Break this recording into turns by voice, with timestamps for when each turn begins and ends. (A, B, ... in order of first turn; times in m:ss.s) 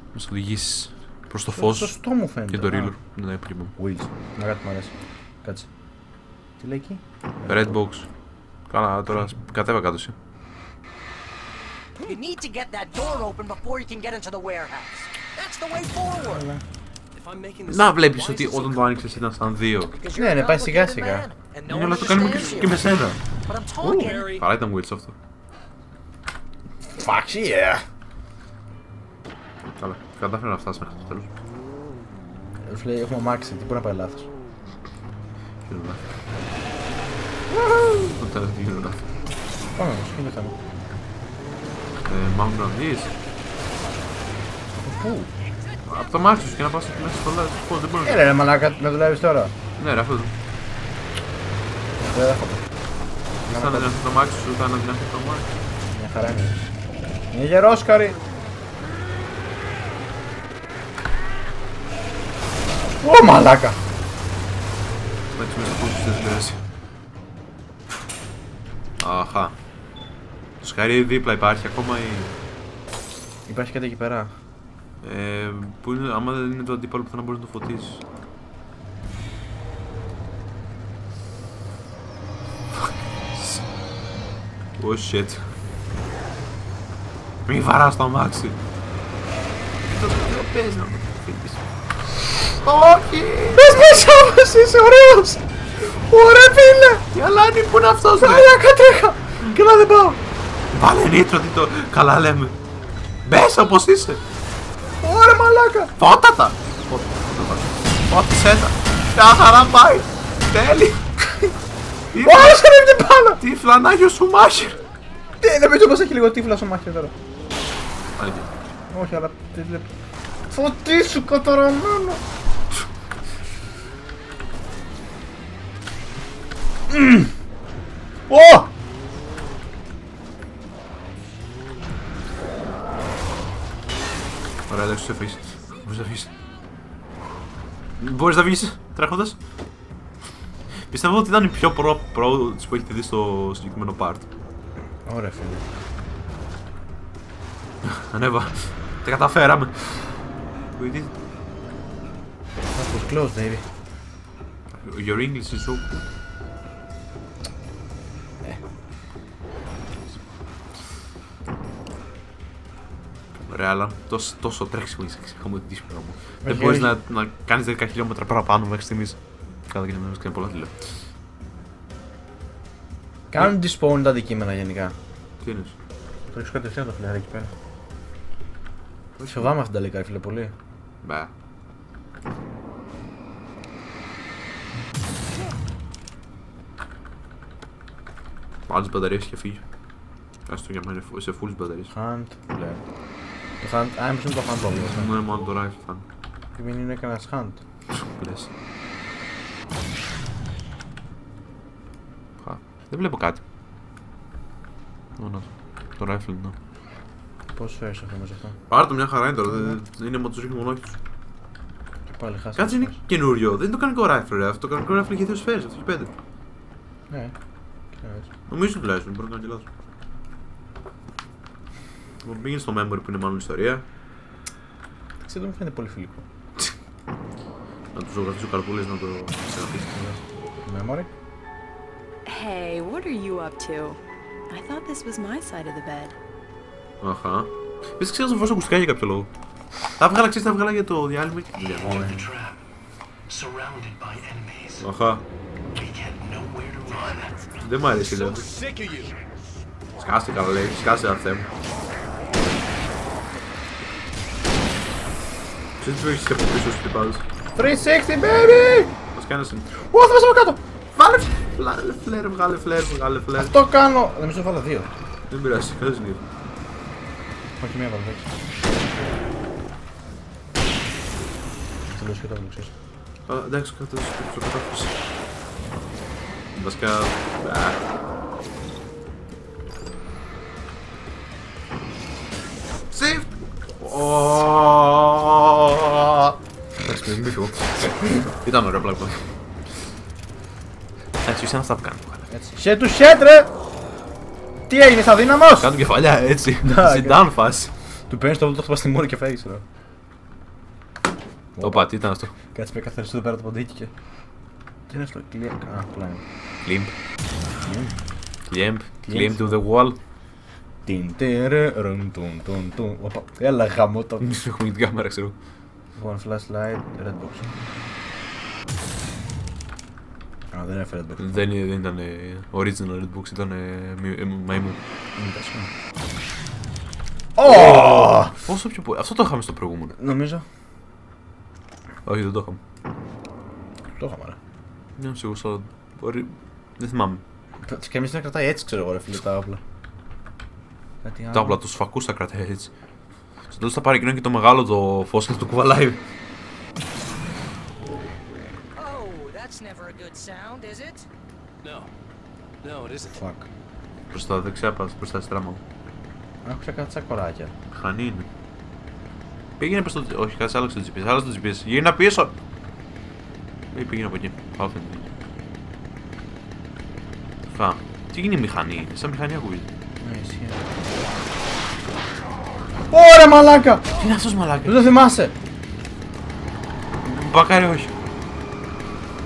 0:00.1-0:03.7 A
0:01.5-0:02.9 B
0:03.8-0:05.7 B
0:06.6-0:07.7 B
0:07.5-0:08.1 A
0:08.7-0:10.2 A
0:12.0-0:16.4 C
0:16.2-0:16.6 B
0:17.1-0:19.5 D
0:17.7-0:19.9 A
0:19.9-0:22.8 C
0:20.1-0:21.3 B
0:21.7-0:23.2 A
0:23.5-0:24.3 C
0:23.8-0:24.1 B
0:24.0-0:24.5 D
0:24.4-0:25.1 A
0:26.9-0:27.8 B
0:29.8-0:31.3 A
0:32.7-0:34.3 B
0:35.7-0:36.0 A
0:37.5-0:38.1 B
0:38.1-0:39.0 A
0:39.8-0:40.6 B
0:42.0-0:43.1 A
0:44.8-0:45.3 B
0:45.9-0:48.2 A
0:48.0-0:49.5 B
0:49.8-0:50.3 A
0:52.0-0:52.6 B
0:53.5-0:53.9 B
0:53.5-0:55.5 A
0:55.9-0:56.6 B
0:57.3-0:58.2 B
1:03.0-1:03.8 B
1:05.3-1:06.6 A
1:09.0-1:09.5 A
1:10.6-1:12.4 A
1:13.5-1:14.3 B
1:15.0-1:18.0 A
1:22.8-1:23.6 A
1:24.8-1:25.4 A
1:27.5-1:28.6 A
1:29.9-1:31.6 A
1:32.5-1:33.7 A
1:33.5-1:35.4 B
1:36.0-1:37.0 B
1:37.1-1:38.5 A
1:38.2-1:40.2 B
1:40.7-1:42.6 A
1:43.3-1:44.2 A
1:45.0-1:45.9 B
1:46.0-1:51.0 A
1:52.1-1:52.7 A
1:52.2-1:53.4 B
1:53.4-1:54.8 A
1:55.4-1:57.1 B
1:58.2-1:58.5 A
1:58.9-1:59.9 B
2:00.5-2:02.2 B
2:06.9-2:07.3 B
2:08.3-2:08.7 B
2:14.7-2:16.3 A
2:18.0-2:19.4 A
2:20.9-2:24.3 A
2:25.0-2:25.6 B
2:27.8-2:30.2 A
2:30.8-2:31.1 A
2:32.7-2:33.7 B
2:34.7-2:36.0 A
2:43.5-2:49.2 A
2:46.4-2:46.9 B
2:49.7-2:50.7 A
2:53.3-2:55.0 B
2:55.4-2:55.8 A
2:56.3-2:57.5 B
2:59.2-2:59.5 A
2:59.3-3:00.5 B
3:01.0-3:01.3 A
3:08.7-3:09.6 A
3:10.5-3:11.9 A
3:11.9-3:12.8 B
3:13.6-3:15.2 B
3:14.8-3:16.0 A
3:16.6-3:17.6 B
3:18.0-3:18.5 A
3:22.4-3:23.4 A
3:25.2-3:26.6 A
3:27.6-3:28.6 B
3:28.7-3:31.0 A
3:29.5-3:29.8 B
3:32.1-3:33.0 B
3:32.6-3:36.1 A
3:38.0-3:38.3 B
3:38.5-3:39.7 A
3:42.2-3:43.8 A
3:45.2-3:46.2 B
3:47.9-3:50.2 A
3:50.6-3:51.1 B
3:52.3-3:54.0 E
3:54.5-3:56.2 E
3:57.0-3:59.3 A
4:00.0-4:02.3 A
4:01.8-4:02.6 F
4:03.3-4:04.9 F
4:04.8-4:05.2 A
4:05.7-4:07.6 F
4:07.6-4:08.4 A
4:08.1-4:09.2 D
4:10.0-4:11.5 A
4:15.8-4:17.2 A
4:17.6-4:19.0 B
4:19.1-4:19.7 A
4:19.9-4:20.6 B
4:20.9-4:23.5 A
4:23.4-4:24.9 B
4:25.3-4:26.2 A
4:27.6-4:28.3 B
4:31.9-4:32.7 B
4:33.3-4:35.0 A
4:36.6-4:37.8 A
4:42.9-4:49.3 A
4:51.2-4:52.3 A
4:52.3-4:53.5 B
4:54.7-4:55.7 B
4:55.6-4:57.7 A
4:56.6-4:57.2 B
4:58.1-4:59.6 B
5:01.6-5:01.9 B
5:01.6-5:02.3 A
5:02.5-5:03.9 B
5:04.9-5:06.2 B
5:06.6-5:06.9 A
5:07.6-5:08.0 B
5:08.5-5:10.0 A
5:09.1-5:09.6 B
5:10.8-5:14.3 B
5:14.2-5:15.4 A
5:16.0-5:17.5 B
5:20.5-5:21.4 B
5:21.2-5:24.8 A
5:25.2-5:25.7 B
5:27.4-5:28.4 B
5:27.4-5:30.0 A
5:30.0-5:30.4 B
5:32.0-5:32.6 A
5:34.0-5:34.4 B
5:35.0-5:37.2 A
5:37.6-5:39.6 B
5:41.0-5:41.6 B
5:41.3-5:42.7 A
5:43.5-5:46.0 A
5:48.8-5:51.1 C
5:51.6-5:51.9 D
5:52.6-5:53.2 D
5:53.2-5:53.5 B
5:54.1-5:55.6 A
5:56.4-5:57.5 B
5:57.7-5:58.3 A
5:59.6-6:02.4 A
6:03.7-6:05.1 A
6:07.5-6:09.7 A
6:10.0-6:10.6 B
6:12.9-6:14.0 B
6:14.0-6:14.9 A
6:14.6-6:15.3 B
6:17.0-6:17.9 A